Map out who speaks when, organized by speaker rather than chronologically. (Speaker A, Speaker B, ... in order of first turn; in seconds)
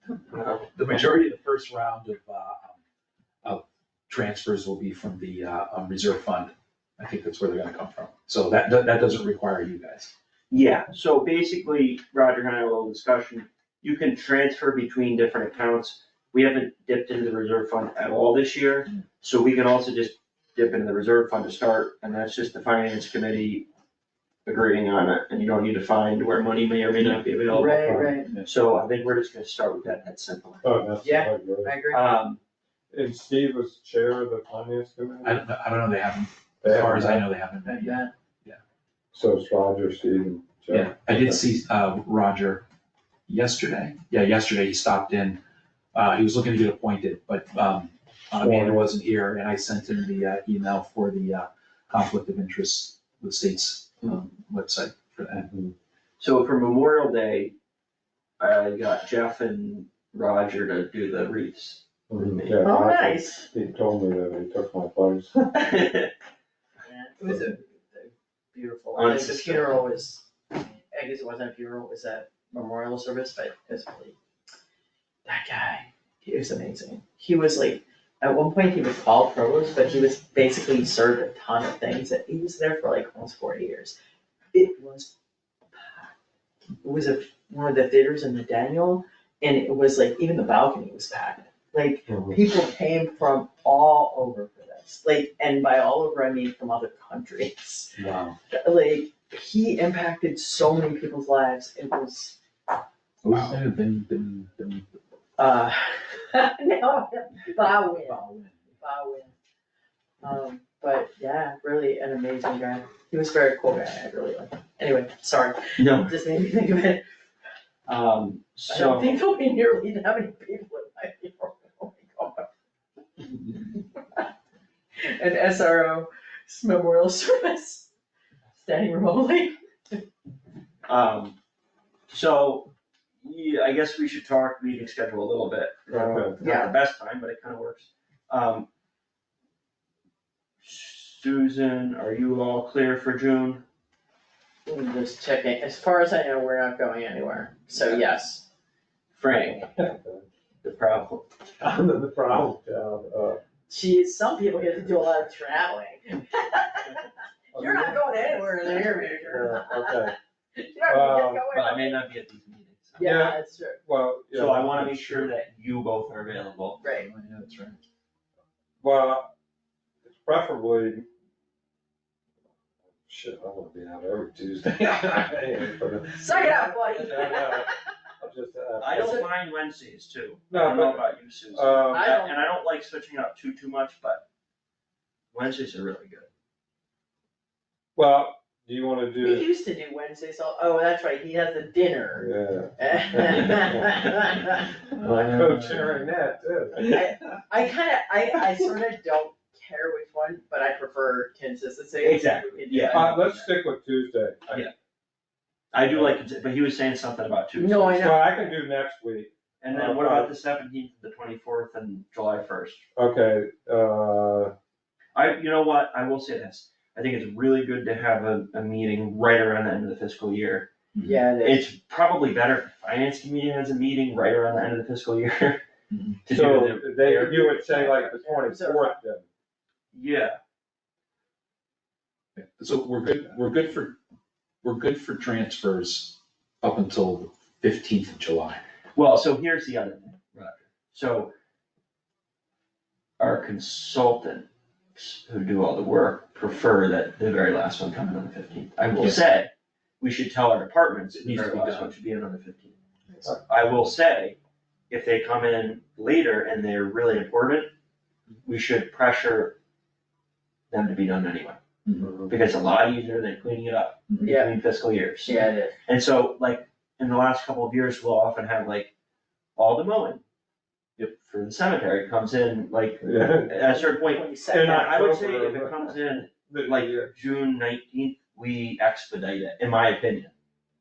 Speaker A: 0.3-0.8, 10.5-23.6, 24.4-30.6, 31.9-32.4, 56.2-57.5, 58.4-61.8, 65.5-66.1, 68.9-69.7, 115.8-116.2, 117.9-119.2, 130.8-131.4, 132.1-138.7, 140.6-143.6, 147.7-148.1, 149.1-149.7, 150.6-151.3, 161.5-163.2, 164.3-166.8, 178.8-184.2, 185.3-186.3, 194.9-196.0, 202.0-203.2, 205.7-208.2, 209.6-212.8, 215.1-220.7, 221.4-225.6, 226.2-227.4, 229.9-230.4, 238.9-241.3, 243.2-252.8, 253.4-254.4, 254.9-257.7, 258.4-259.6, 260.7-261.6, 262.3-268.9, 269.6-270.2, 271.0-280.3
Speaker B: 0.7-2.8, 3.4-10.1, 35.2-38.6, 40.7-42.6, 43.3-45.4, 45.9-55.5, 98.0-98.4, 103.2-104.9, 107.8-108.6, 166.8-167.8, 195.0-195.8, 220.9-221.2, 225.9-226.2, 232.3-234.0, 234.6-238.6, 248.9-249.2, 251.1-251.9, 261.9-262.1
Speaker C: 27.5-28.3, 31.0-32.1, 37.6-38.1, 62.6-63.5, 66.8-74.2, 75.2-83.9, 84.5-85.1, 85.8-86.1, 86.8-97.9, 98.5-102.3, 105.4-109.3, 110.2-117.0, 118.7-122.5, 123.5-124.3, 125.0-127.9, 128.6-130.0, 136.4-136.7, 144.7-148.4, 153.7-162.0, 162.9-163.8, 166.8-167.1, 176.1-177.7, 178.9-179.3, 181.9-182.4, 189.2-194.8, 196.8-203.5, 207.5-208.4, 221.0-221.7, 227.3-229.0, 264.2-264.5, 265.2-265.7, 273.6-274.9
Speaker D: 27.7-28.2, 30.6-31.7, 32.9-35.4, 36.6-37.2, 39.1-41.4, 48.3-48.8, 55.4-55.7, 62.1-65.4, 92.1-92.4, 135.9-136.4, 149.4-150.2, 151.6-153.4, 157.5-158.0, 159.2-160.1, 160.9-161.4, 163.0-165.3, 168.8-169.3, 170.0-171.1, 173.0-179.2, 180.5-182.1, 187.9-189.5, 192.1-193.9, 195.3-197.0, 202.9-204.7, 205.9-206.2, 208.0-210.3, 212.9-214.5, 226.3-229.3, 262.0-262.3, 273.0-273.5, 274.5-277.1